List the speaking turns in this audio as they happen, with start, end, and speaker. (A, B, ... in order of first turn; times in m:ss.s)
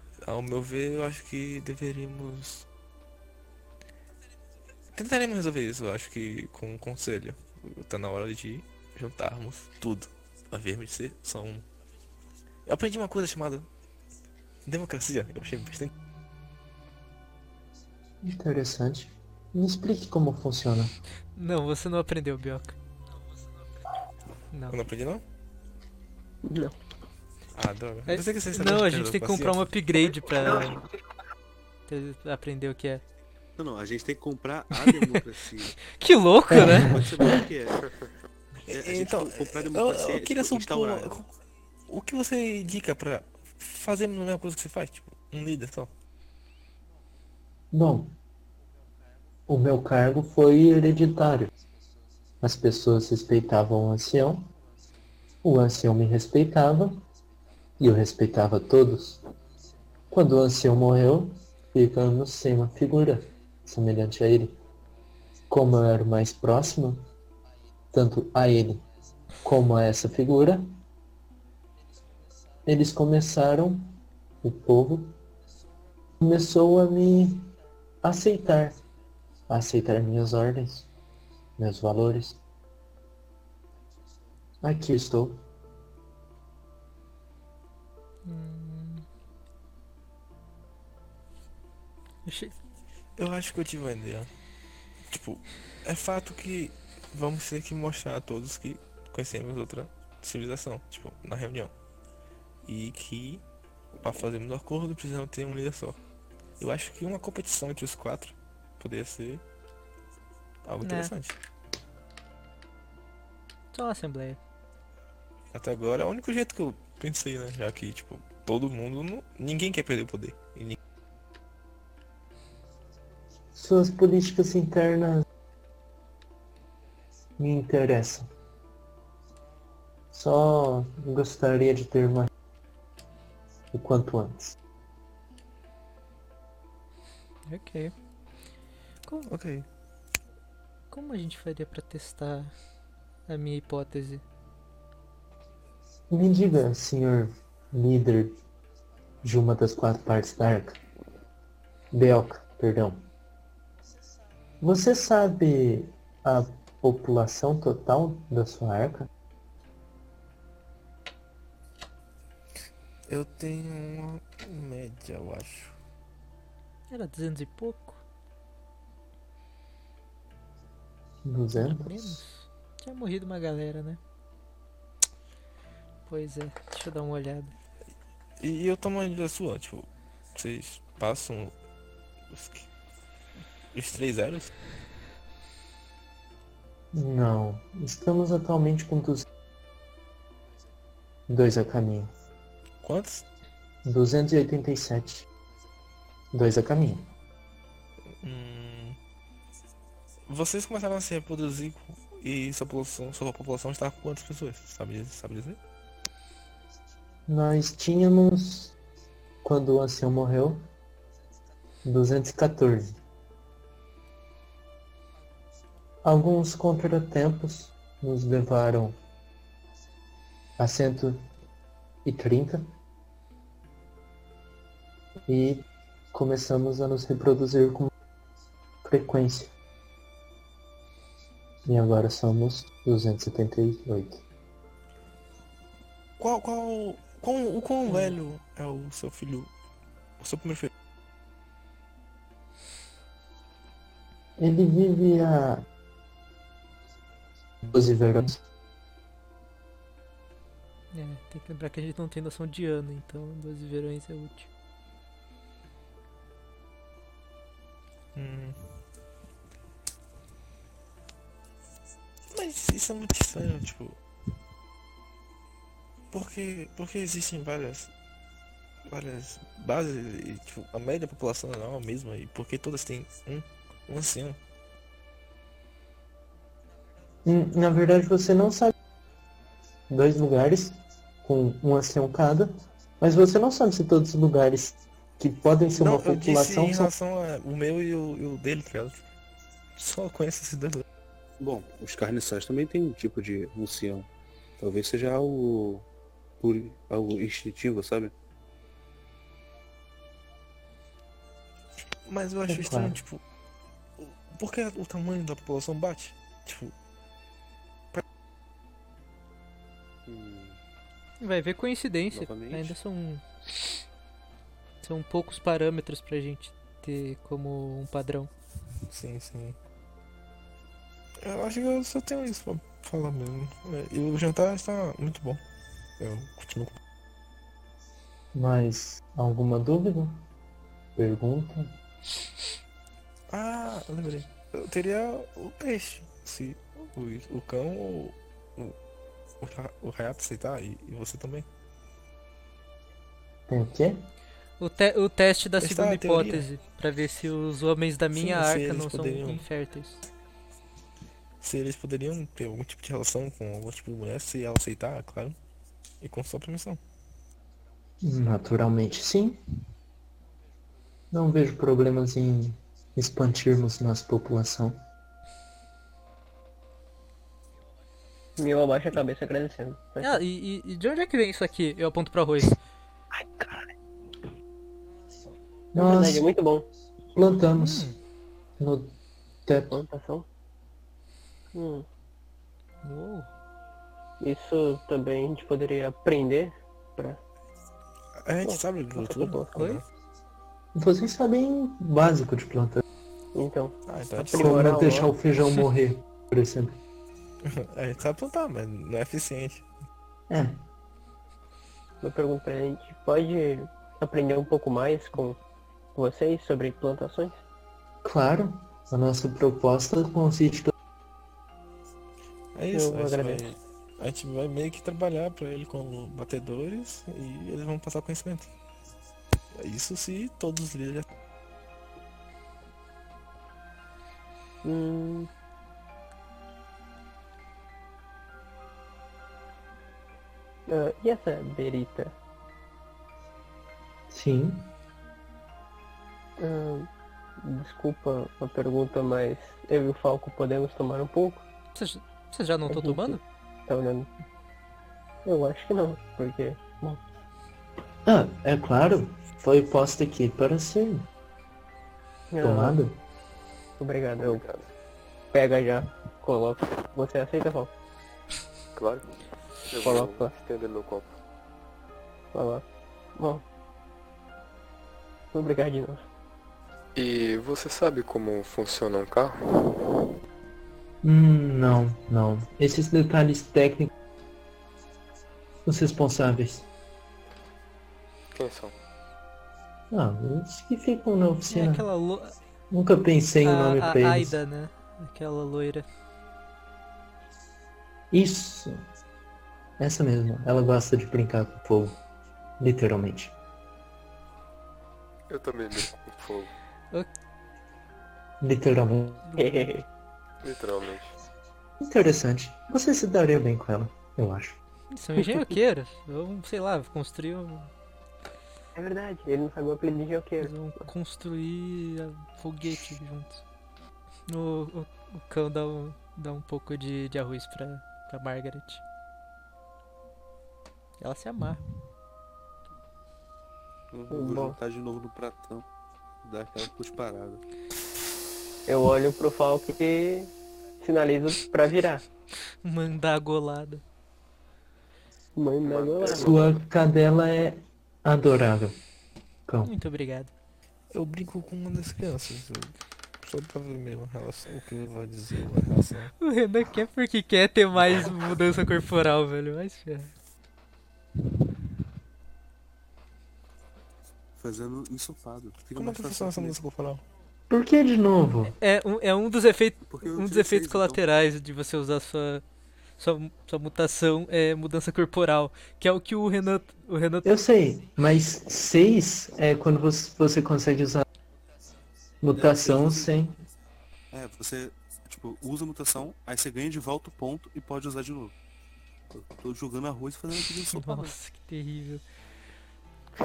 0:00.2-0:02.7 A
0:04.9-0:11.6 A
0:12.6-0:13.7 A
0:14.6-0:15.9 A
0:18.2-0:20.9 B
0:21.4-0:22.8 C
0:24.5-0:24.8 C
0:24.7-0:25.2 A
0:26.4-0:26.8 D
0:27.5-0:29.6 A
0:28.1-0:30.8 C
0:31.9-0:33.0 C
0:33.6-0:35.8 E
0:34.8-0:35.2 C
0:36.0-0:37.3 C
0:36.5-0:37.9 E
0:36.5-0:36.8 B
0:38.7-0:41.2 E
0:38.7-0:41.3 A
0:41.9-0:45.9 A
0:47.7-0:48.1 B
0:49.5-0:51.5 B
0:52.4-0:54.5 B
0:55.4-0:57.0 B
0:57.8-0:59.2 B
1:00.1-1:04.6 B
1:05.5-1:07.1 B
1:07.9-1:08.8 B
1:09.4-1:10.6 B
1:12.6-1:15.2 B
1:16.2-1:18.8 B
1:19.5-1:20.9 B
1:21.6-1:22.4 B
1:24.6-1:25.4 B
1:28.2-1:29.0 C
1:32.2-1:32.5 C
1:33.2-1:34.3 A
1:35.1-1:41.7 A
1:42.6-1:43.4 A
1:44.0-1:46.0 A
1:46.6-1:49.4 A
1:50.6-1:51.4 A
1:50.8-1:51.1 C
1:53.7-1:54.4 C
1:55.5-2:00.8 A
2:03.5-2:05.2 B
2:07.4-2:08.3 B
2:10.1-2:12.3 B
2:13.7-2:14.6 B
2:17.5-2:17.9 C
2:19.3-2:19.6 A
2:20.9-2:22.5 C
2:23.3-2:24.2 C
2:26.1-2:28.4 B
2:29.2-2:30.8 B
2:31.9-2:33.0 B
2:34.6-2:39.1 B
2:43.1-2:45.7 A
2:46.9-2:48.0 C
2:51.2-2:52.2 B
2:51.5-2:54.0 C
2:56.1-2:57.5 C
2:58.4-3:01.5 A
3:02.3-3:02.6 A
3:03.7-3:04.5 A
3:06.9-3:09.2 B
3:11.3-3:12.1 B
3:12.8-3:13.2 A
3:13.8-3:15.2 B
3:16.3-3:17.1 B
3:18.2-3:19.0 A
3:20.3-3:25.6 A
3:27.3-3:28.7 B
3:29.4-3:30.7 B
3:31.8-3:33.0 B
3:36.0-3:39.0 B
3:40.6-3:41.3 B
3:42.0-3:42.7 B
3:45.3-3:47.9 B
3:48.8-3:49.5 B
3:51.6-3:54.2 B
3:56.2-3:59.5 A
4:00.2-4:00.7 A
4:04.4-4:05.6 B
4:07.6-4:08.4 B
4:10.9-4:14.5 C
4:18.1-4:18.7 A
4:22.3-4:24.0 A
4:26.1-4:27.9 A
4:28.9-4:34.4 A
4:37.2-4:38.7 B
4:39.9-4:46.9 B
4:45.7-4:49.0 A
4:49.8-4:50.8 A
4:51.4-4:54.1 E
4:54.6-4:55.8 E
4:56.4-4:58.1 E
5:02.0-5:03.2 A
5:02.5-5:03.0 B
5:04.0-5:06.7 A
5:10.0-5:10.6 E
5:11.2-5:13.8 C
5:12.1-5:12.8 E
5:14.8-5:18.3 C
5:18.9-5:19.6 A
5:21.2-5:25.4 A
5:26.0-5:26.8 A
5:28.3-5:30.2 B
5:31.0-5:31.7 B
5:33.3-5:38.8 A
5:39.4-5:41.5 A
5:43.5-5:44.0 B
5:44.6-5:50.0 C
5:45.6-5:46.5 A
5:48.1-5:49.4 A
5:51.4-5:55.4 A
5:56.0-5:56.8 A
5:58.0-5:59.4 B
6:01.1-6:04.8 B
6:08.4-6:10.2 D
6:10.0-6:12.6 C
6:13.2-6:13.6 B
6:15.7-6:16.2 B
6:15.7-6:16.7 D
6:17.1-6:17.9 B
6:17.6-6:18.0 C
6:18.6-6:19.8 B
6:19.7-6:20.2 D
6:21.5-6:21.8 D
6:22.8-6:23.3 C
6:24.2-6:27.2 D
6:28.2-6:29.8 A
6:28.4-6:29.6 D
6:30.7-6:32.8 B
6:33.3-6:35.1 D
6:33.9-6:34.8 A
6:34.3-6:36.8 B
6:37.4-6:39.6 A
6:40.3-6:40.6 B
6:42.0-6:45.4 D
6:46.0-6:47.4 D
6:48.0-6:50.7 B
6:52.5-6:58.5 A
6:52.7-6:53.5 D
6:59.5-7:01.0 A
7:04.6-7:05.3 D
7:10.7-7:12.1 D
7:14.1-7:14.7 B
7:16.4-7:16.9 D
7:17.4-7:21.4 D
7:21.7-7:23.2 C
7:22.7-7:24.1 D
7:25.2-7:27.0 D
7:28.0-7:31.1 B
7:32.3-7:32.8 D
7:32.4-7:33.0 B
7:33.8-7:34.4 D
7:34.2-7:34.7 F
7:35.3-7:37.7 D
7:38.7-7:39.0 F
7:39.7-7:41.2 F
7:39.8-7:40.3 D
7:42.3-7:42.6 D
7:43.2-7:43.4 D
7:45.3-7:46.0 D
7:47.0-7:49.6 F
7:51.0-7:53.9 B
7:55.6-7:56.6 B
7:58.3-7:58.7 F
7:59.9-8:01.8 B
8:01.5-8:02.4 C
8:02.7-8:04.4 B
8:03.4-8:05.9 C
8:08.1-8:08.8 B
8:09.8-8:12.0 B
8:12.6-8:13.3 B
8:15.3-8:16.5 F
8:18.4-8:19.3 B
8:19.3-8:19.6 C
8:19.4-8:19.8 D
8:20.4-8:21.1 F
8:21.8-8:24.6 B
8:24.9-8:27.7 C
8:28.7-8:30.5 D
8:30.4-8:33.4 C
8:34.3-8:38.8 C
8:41.0-8:41.6 C
8:43.9-8:45.6 E
8:44.1-8:44.6 D
8:46.2-8:47.4 E
8:48.7-8:52.0 D
8:52.6-8:53.8 C
8:55.4-8:56.3 D
8:55.7-8:56.4 F
8:56.1-8:58.8 B
8:59.5-8:59.7 B
8:59.6-9:00.3 C
9:00.9-9:06.1 A
9:06.2-9:10.1 C
9:14.4-9:16.6 E
9:15.7-9:17.0 A
9:17.5-9:18.5 B
9:18.6-9:22.4 C
9:19.9-9:21.0 E
9:23.0-9:27.3 C
9:27.2-9:31.0 B
9:32.2-9:33.4 B
9:32.3-9:33.1 E
9:34.1-9:38.3 E
9:39.1-9:41.1 E
9:40.7-9:42.0 C